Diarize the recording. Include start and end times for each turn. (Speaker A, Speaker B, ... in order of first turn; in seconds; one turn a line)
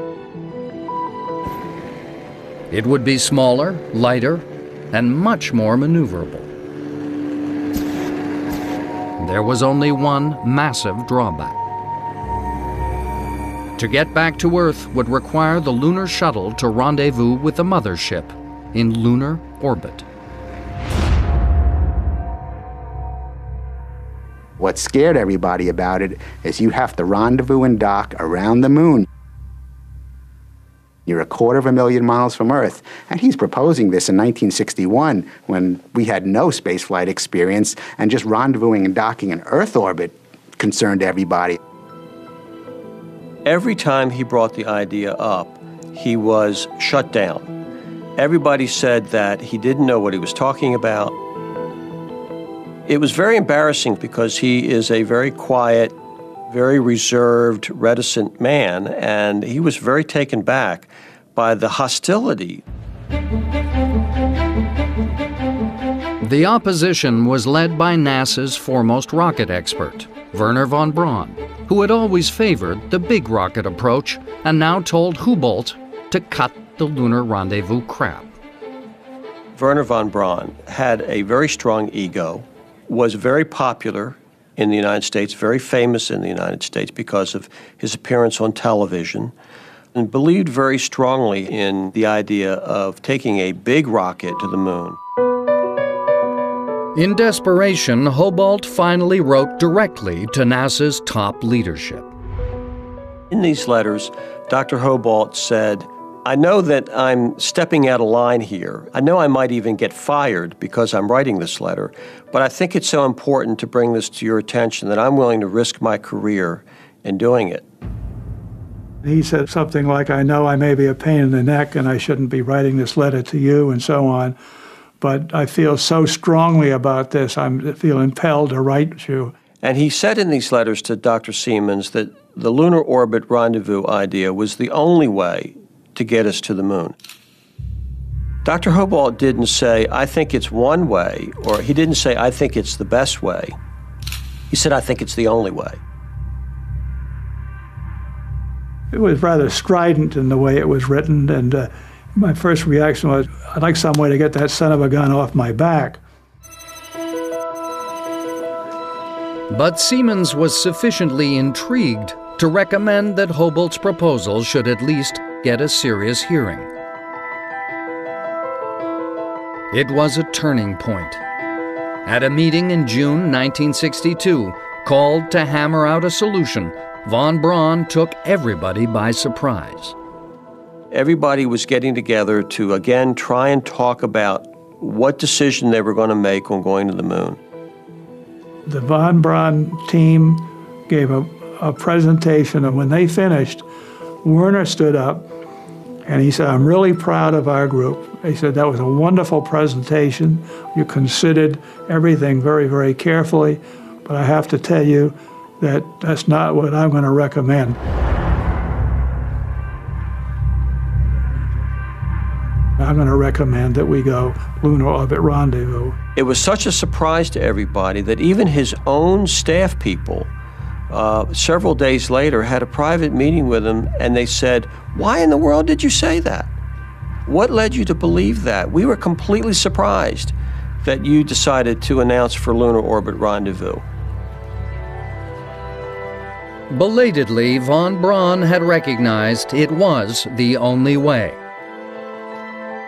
Speaker A: 2.7-6.5
Speaker A: 9.2-11.6
Speaker A: 13.8-20.1
Speaker B: 24.6-29.0
Speaker B: 31.1-41.6
Speaker C: 43.4-47.5
Speaker C: 48.2-51.1
Speaker C: 52.9-55.9
Speaker C: 56.5-62.6
Speaker A: 66.2-78.3
Speaker C: 79.5-89.3
Speaker C: 89.9-95.0
Speaker A: 96.9-102.1
Speaker C: 103.3-117.6
Speaker D: 119.0-124.3
Speaker D: 125.0-129.3
Speaker C: 129.6-136.9
Speaker C: 138.4-143.6
Speaker C: 144.5-145.8
Speaker D: 148.9-156.0
Speaker A: 159.5-166.7
Speaker A: 169.7-171.2
Speaker A: 172.0-179.9
Speaker C: 180.9-187.4
Speaker D: 188.7-193.6
Speaker D: 194.2-195.2
Speaker D: 196.1-207.8
Speaker D: 212.8-216.0
Speaker C: 216.2-220.3
Speaker C: 220.9-226.5
Speaker C: 227.2-233.8
Speaker A: 236.7-241.4